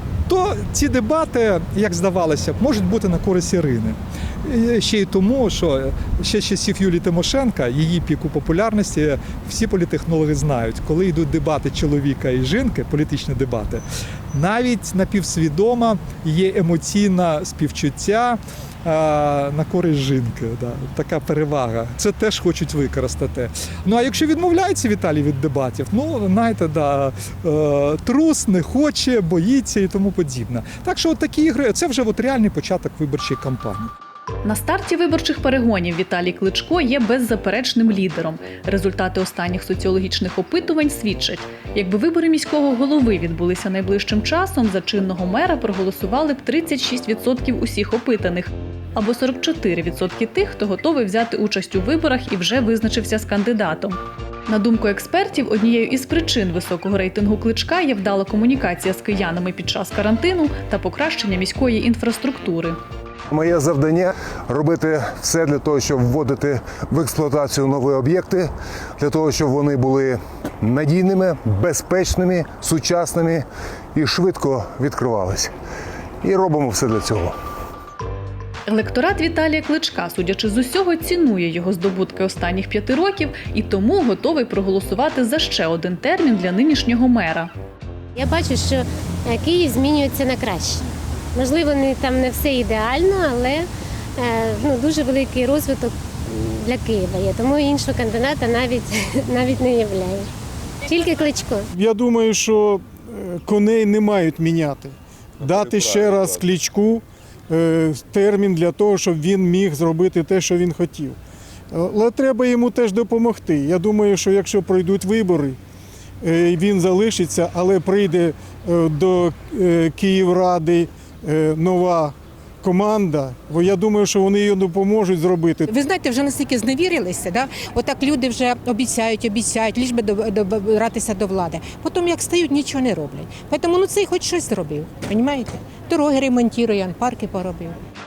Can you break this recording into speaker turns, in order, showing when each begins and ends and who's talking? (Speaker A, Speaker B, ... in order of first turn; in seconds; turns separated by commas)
Speaker A: 0.3-33.9, Speaker B: 34.5-54.0, Speaker B: 54.5-62.8, Speaker C: 63.3-75.5, Speaker C: 76.2-77.3, Speaker B: 78.7-87.5, Speaker D: 88.2-90.8, Speaker D: 91.4-93.7, Speaker D: 94.2-100.3, Speaker D: 100.9-101.7, Speaker E: 101.7-111.2, Speaker E: 111.7-115.6, Speaker E: 116.2-125.7, Speaker F: 125.7-137.8